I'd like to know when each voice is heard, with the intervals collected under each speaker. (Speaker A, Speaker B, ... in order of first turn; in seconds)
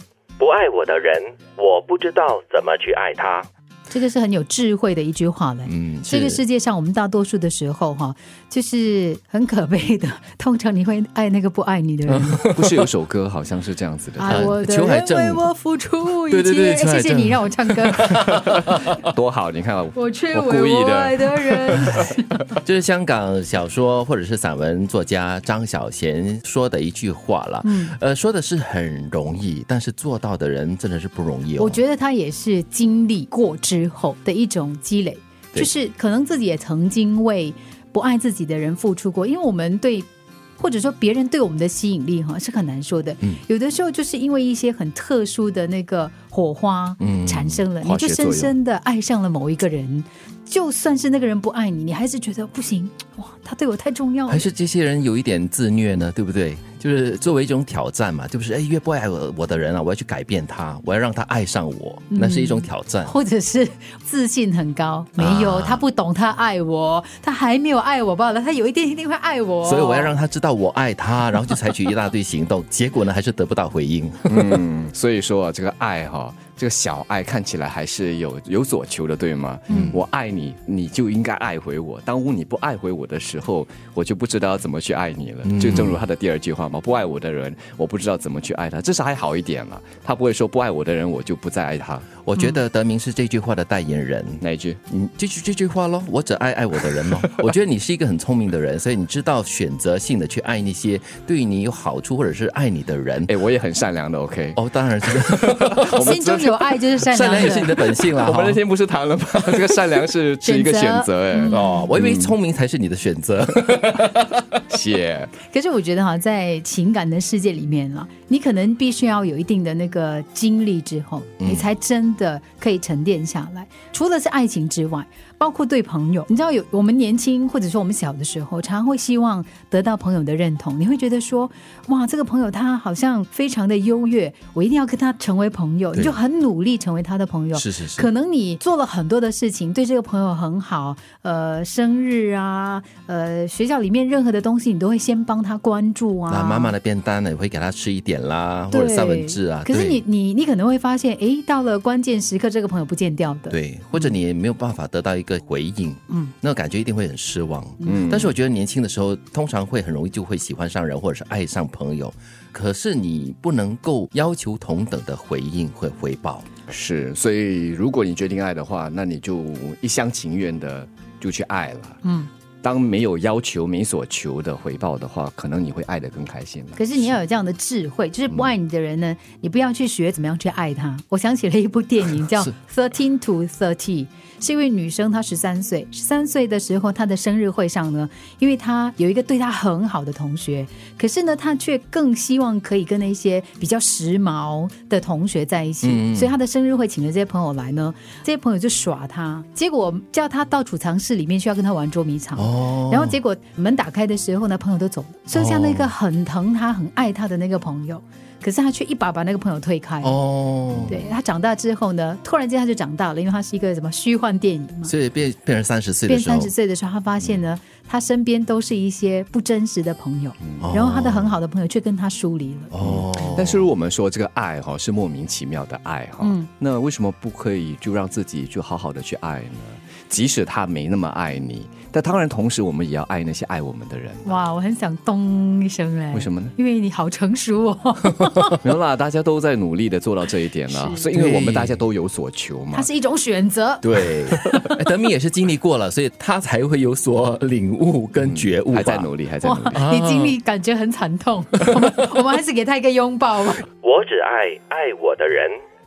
Speaker A: 0.4-3.5, 253.8-255.6
Speaker B: 3.9-12.4, 14.2-18.6, 19.9-22.3, 27.6-27.9, 31.6-54.5, 62.1-70.2, 79.7-80.0, 105.9-107.8, 110.4-111.8, 115.4-146.8, 148.7-154.1, 172.0-172.3, 176.8-210.2, 210.9-214.9, 216.1-222.7, 226.2-226.5, 234.2-238.6, 240.7-241.1, 242.7-244.8, 249.4-253.7
Speaker C: 5.7-6.4, 12.1-12.8, 14.2-15.5, 16.3-18.9, 22.6-31.8, 47.0-47.6, 54.3-63.1, 65.2-65.8, 69.6-74.6, 79.7-80.0, 85.5-86.0, 92.2-103.3, 104.5-106.2, 107.0-108.6, 111.5-113.9, 121.4-121.6, 137.5-138.1, 146.3-150.0, 153.5-166.5, 195.8-196.3, 202.3-203.2, 205.3-205.9, 210.0-211.1, 214.9-216.5, 220.6-221.3, 222.7-223.7, 241.1-241.8, 243.8-249.1, 249.7-250.3
Speaker D: 12.5-14.5, 18.4-21.9, 47.8-48.5, 74.3-92.1, 94.4-94.8, 103.3-112.3, 113.7-115.3, 157.8-158.3, 166.7-172.0, 172.6-177.0, 222.8-234.4, 236.1-236.5, 238.6-242.9, 248.2-249.8